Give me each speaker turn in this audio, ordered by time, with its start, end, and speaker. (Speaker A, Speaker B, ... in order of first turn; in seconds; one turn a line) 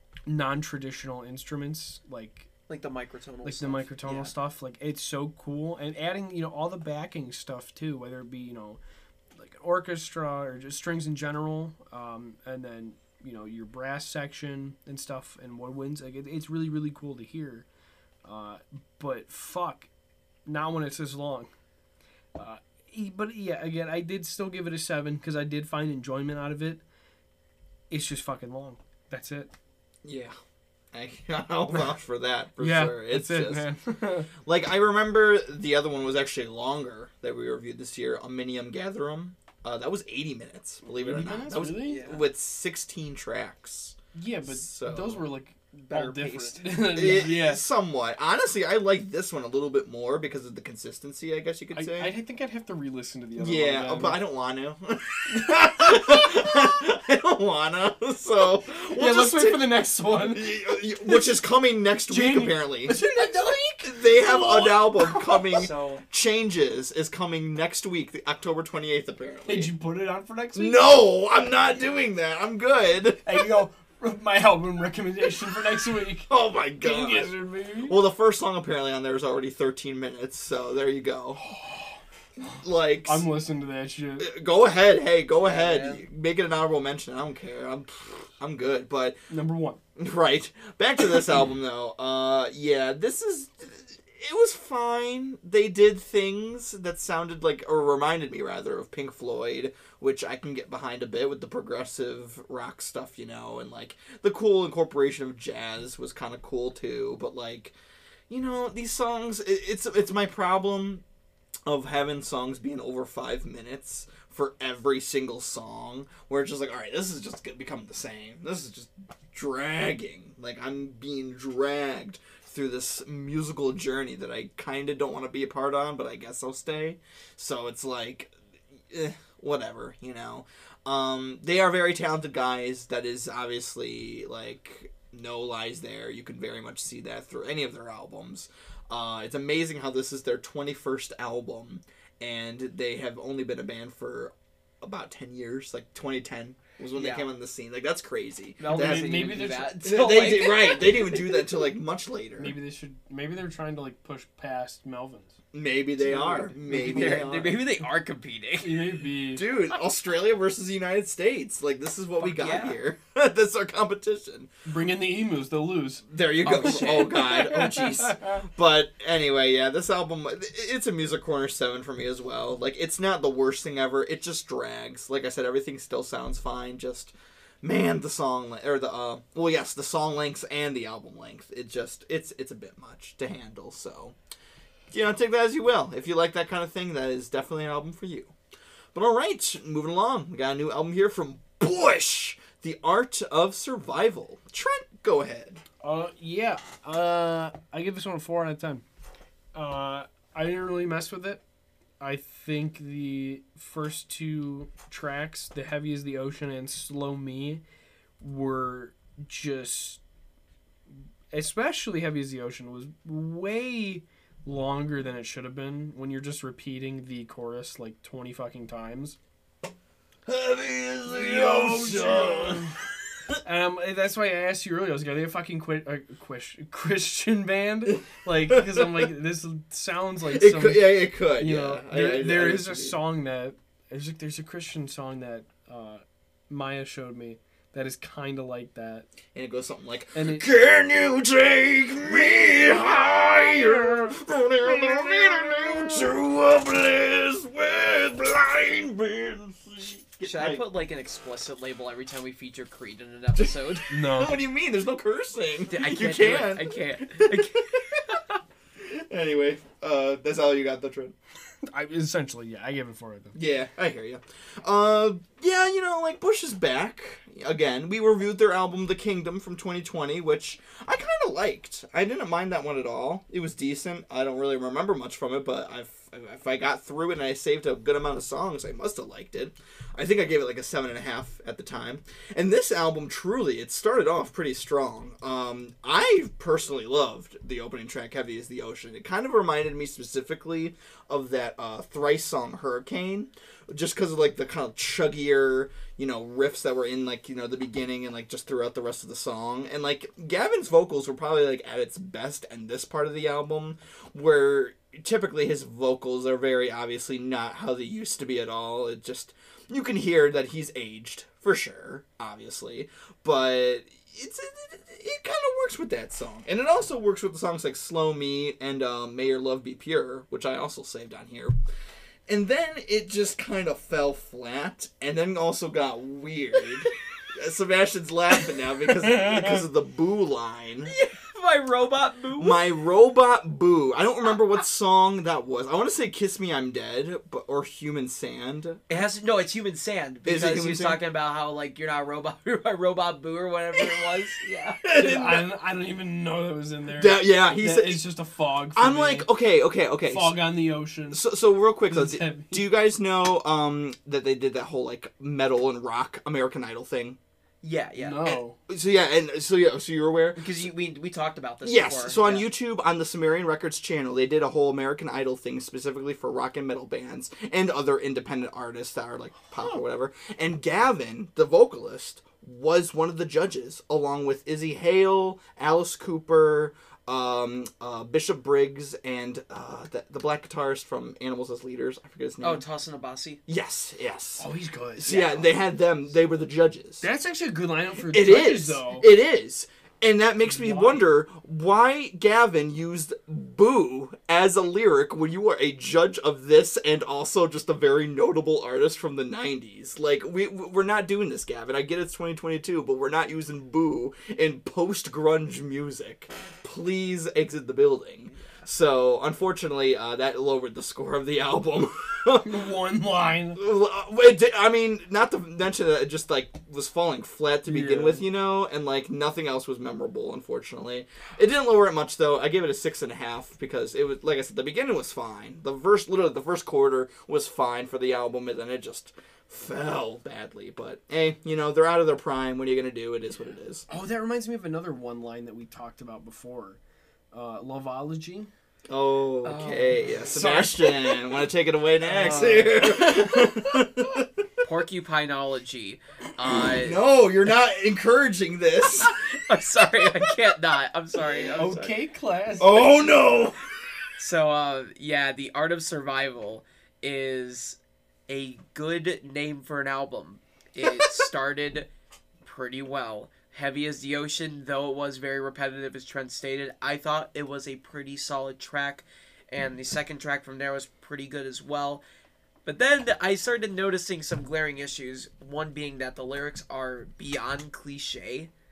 Speaker A: 0.3-2.5
Speaker B: 2.7-4.3
Speaker A: 3.4-8.8
Speaker A: 9.3-17.7
Speaker A: 18.2-19.9
Speaker A: 20.4-21.5
Speaker A: 22.3-26.8
Speaker A: 27.9-29.5
Speaker C: 30.0-30.4
Speaker C: 30.9-33.7
Speaker A: 32.6-34.3
Speaker C: 34.4-45.2
Speaker A: 40.9-42.0
Speaker B: 41.9-42.2
Speaker A: 44.1-47.6
Speaker B: 45.7-47.2
Speaker C: 46.9-52.1
Speaker A: 51.7-54.2
Speaker C: 53.4-63.0
Speaker A: 55.3-56.0
Speaker A: 58.9-61.2
Speaker A: 62.1-65.6
Speaker C: 63.8-69.7
Speaker B: 65.5-66.0
Speaker A: 69.5-70.9
Speaker C: 70.5-73.5
Speaker A: 73.2-78.0
Speaker C: 76.3-81.4
Speaker A: 81.4-82.0
Speaker C: 82.5-83.3
Speaker A: 83.0-84.3
Speaker C: 84.2-89.2
Speaker B: 85.4-86.0
Speaker A: 89.3-89.8
Speaker C: 90.0-107.7
Speaker C: 108.3-111.0
Speaker C: 111.7-152.5
Speaker B: 146.9-147.2
Speaker B: 148.6-151.2
Speaker A: 148.7-149.8
Speaker A: 152.4-155.4
Speaker C: 155.5-157.6
Speaker A: 156.0-157.3
Speaker B: 156.8-158.9
Speaker A: 158.6-159.4
Speaker C: 159.3-164.5
Speaker B: 162.2-162.8
Speaker A: 164.7-168.4
Speaker C: 166.1-184.2
Speaker B: 166.4-167.2
Speaker C: 184.9-188.3
Speaker C: 188.9-195.6
Speaker A: 195.8-198.8
Speaker A: 199.5-201.4
Speaker A: 202.0-207.6
Speaker A: 208.2-210.0
Speaker A: 211.3-219.2
Speaker C: 220.2-222.7
Speaker A: 221.1-222.7
Speaker A: 223.4-239.1
Speaker C: 228.5-228.8
Speaker C: 230.2-233.0
Speaker C: 239.3-250.6
Speaker A: 240.1-240.5
Speaker B: 250.2-253.9
Speaker C: 253.3-258.2
Speaker A: 253.9-254.4
Speaker B: 255.7-258.2
Speaker C: 258.8-261.1
Speaker A: 261.7-263.4
Speaker C: 263.3-321.6
Speaker C: 322.3-330.9
Speaker A: 329.0-329.6
Speaker B: 330.9-332.6
Speaker C: 332.4-339.0
Speaker B: 338.9-345.4
Speaker C: 340.2-341.0
Speaker C: 343.8-344.1
Speaker C: 344.8-345.4
Speaker A: 345.0-349.3
Speaker C: 347.0-348.0
Speaker C: 348.7-350.4
Speaker A: 350.1-351.2
Speaker C: 351.1-357.2
Speaker A: 351.9-352.6
Speaker B: 357.6-358.4
Speaker A: 358.0-358.6
Speaker C: 358.7-360.7
Speaker B: 360.4-362.4
Speaker C: 361.6-382.6
Speaker B: 382.4-383.4
Speaker C: 383.5-384.4
Speaker A: 384.4-385.3
Speaker C: 385.0-387.0
Speaker B: 385.1-385.5
Speaker A: 387.0-389.1
Speaker C: 388.1-412.5
Speaker A: 390.4-391.1
Speaker A: 412.4-413.6
Speaker C: 413.5-433.8
Speaker A: 417.7-418.2
Speaker A: 433.9-436.8
Speaker A: 437.3-438.5
Speaker C: 438.9-444.6
Speaker B: 439.4-440.7
Speaker A: 440.3-440.9
Speaker A: 442.0-442.8
Speaker B: 442.1-442.8
Speaker B: 444.6-447.0
Speaker C: 446.4-449.1
Speaker B: 449.0-451.9
Speaker C: 449.9-450.5
Speaker C: 451.2-451.5
Speaker A: 451.5-452.9
Speaker C: 452.6-453.6
Speaker B: 454.2-457.8
Speaker B: 458.3-461.9
Speaker C: 460.8-461.3
Speaker B: 462.4-472.0
Speaker B: 472.6-478.5